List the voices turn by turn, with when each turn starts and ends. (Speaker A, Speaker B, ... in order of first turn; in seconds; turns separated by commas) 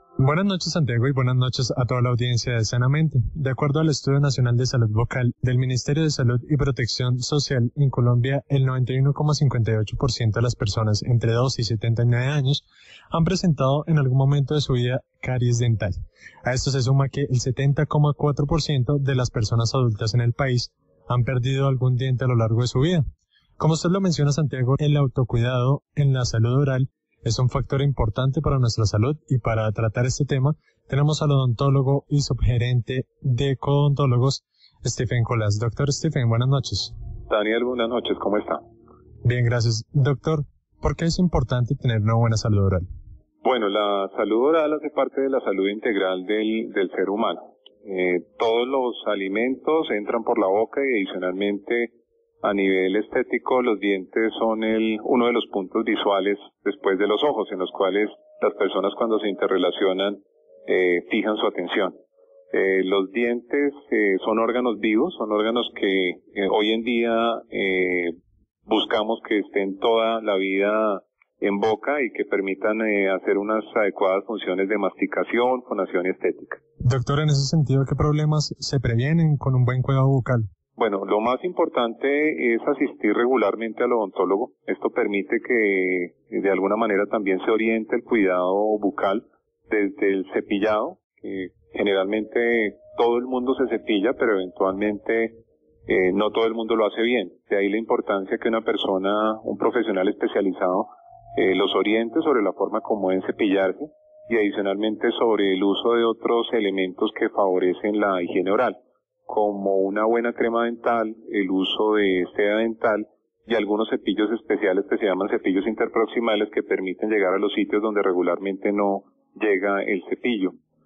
Speaker A: 0.2-15.9, Speaker A: 16.4-23.0, Speaker A: 23.6-36.9, Speaker B: 37.3-38.6, Speaker A: 39.2-42.8, Speaker B: 43.4-62.0, Speaker B: 62.5-68.2, Speaker B: 68.7-76.6, Speaker A: 76.8-80.4, Speaker B: 80.8-108.8, Speaker B: 109.3-120.5